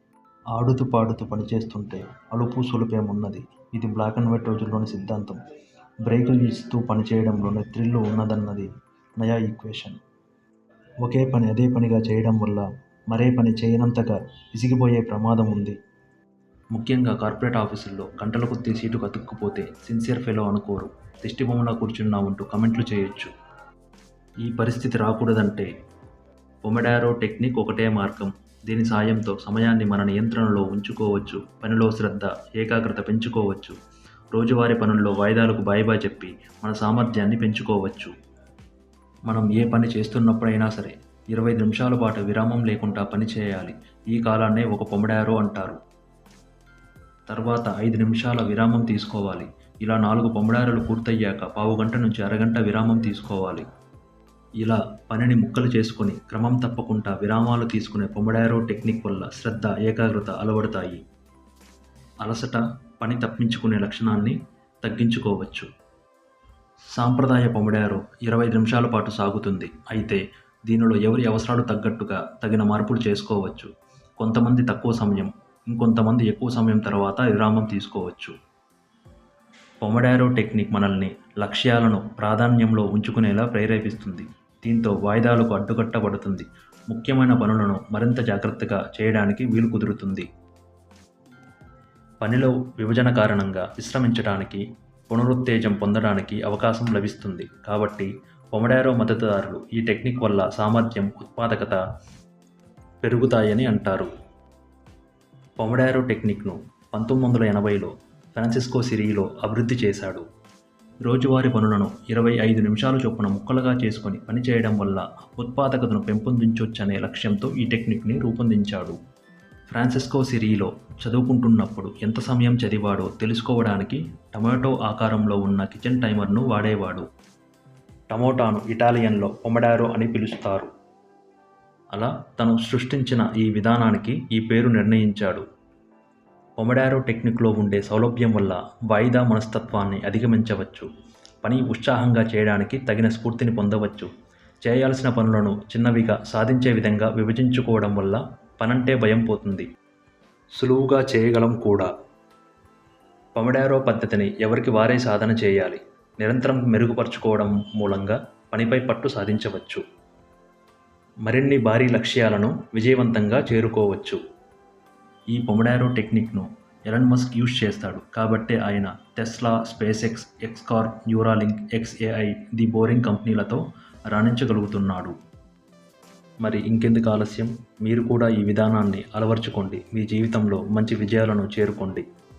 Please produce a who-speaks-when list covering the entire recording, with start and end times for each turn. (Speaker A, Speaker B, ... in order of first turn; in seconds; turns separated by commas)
Speaker A: 0.5-5.4, Speaker A: 6.0-10.0, Speaker A: 11.0-15.8, Speaker A: 16.7-23.3, Speaker A: 24.4-25.7, Speaker A: 26.6-33.7, Speaker A: 34.3-38.1, Speaker A: 39.3-45.8, Speaker A: 47.3-53.6, Speaker A: 54.6-61.0, Speaker A: 62.2-65.7, Speaker A: 66.9-78.3, Speaker A: 79.8-90.3, Speaker A: 92.2-101.8, Speaker A: 103.0-104.1, Speaker A: 105.6-110.2, Speaker A: 111.0-119.0, Speaker A: 119.7-127.0, Speaker A: 128.1-130.7, Speaker A: 131.9-135.4, Speaker A: 136.6-140.9, Speaker A: 141.4-144.1, Speaker A: 144.6-149.7, Speaker A: 150.6-151.9, Speaker A: 153.3-159.8, Speaker A: 161.2-164.2, Speaker A: 165.3-173.6, Speaker A: 174.1-175.1, Speaker A: 176.4-182.0